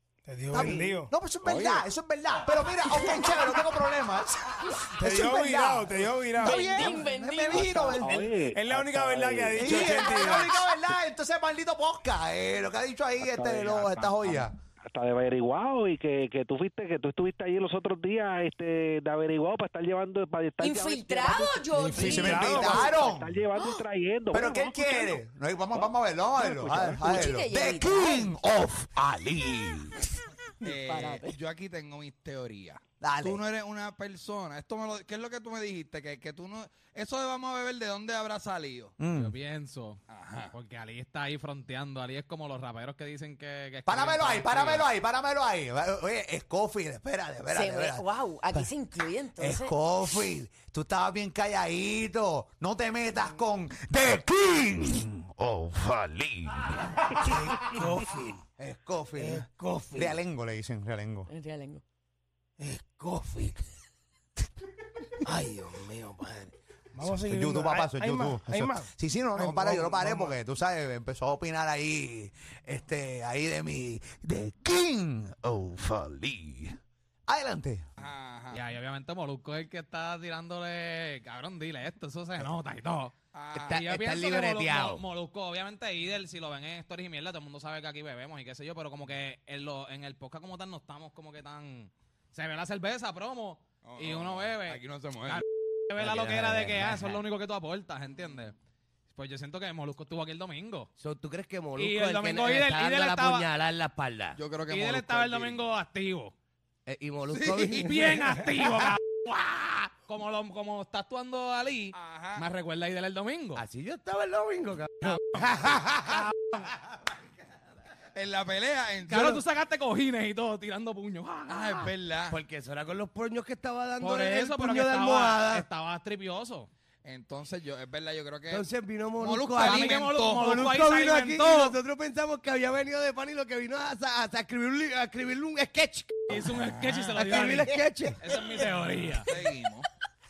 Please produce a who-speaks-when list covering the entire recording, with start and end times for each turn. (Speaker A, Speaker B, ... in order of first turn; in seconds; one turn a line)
Speaker A: 0.2-1.1
Speaker B: 0.5-8.3
Speaker C: 1.4-1.8
Speaker A: 5.0-6.9
Speaker D: 6.4-8.2
Speaker C: 7.6-9.9
Speaker A: 8.5-10.6
Speaker B: 9.6-14.5
Speaker C: 13.2-25.2
Speaker D: 20.6-23.1
Speaker B: 22.0-23.5
Speaker B: 24.3-30.0
Speaker D: 26.5-28.4
Speaker E: 30.6-39.0
Speaker D: 30.6-31.3
Speaker B: 33.0-33.4
Speaker B: 39.0-39.3
Speaker F: 39.1-40.0
Speaker E: 40.1-40.5
Speaker F: 40.5-44.9
Speaker B: 43.9-48.7
Speaker D: 47.5-49.8
Speaker B: 49.4-57.7
Speaker A: 57.1-58.4
Speaker B: 58.6-61.3
Speaker A: 59.2-60.2
Speaker D: 61.3-61.8
Speaker A: 62.6-63.6
Speaker A: 65.2-70.4
Speaker B: 67.0-77.9
Speaker E: 78.0-78.6
Speaker F: 78.5-83.1
Speaker E: 83.3-83.8
Speaker G: 83.6-85.0
Speaker F: 83.7-98.5
Speaker E: 93.8-95.4
Speaker G: 96.0-97.2
Speaker F: 99.1-100.9
Speaker G: 101.0-104.4
Speaker F: 101.8-103.5
Speaker E: 104.4-105.6
Speaker F: 104.7-106.3
Speaker G: 106.9-108.0
Speaker E: 107.3-107.9
Speaker F: 107.7-113.6
Speaker E: 111.9-112.5
Speaker G: 113.6-116.2
Speaker F: 115.0-115.4
Speaker F: 116.1-116.3
Speaker E: 118.1-119.4
Speaker F: 119.1-121.9
Speaker E: 121.5-122.4
Speaker G: 122.3-125.6
Speaker F: 124.0-126.7
Speaker E: 127.0-128.7
Speaker G: 128.5-136.4
Speaker E: 129.2-130.5
Speaker F: 129.6-131.8
Speaker F: 136.3-139.3
Speaker E: 136.8-137.2
Speaker G: 137.1-138.2
Speaker E: 139.2-139.9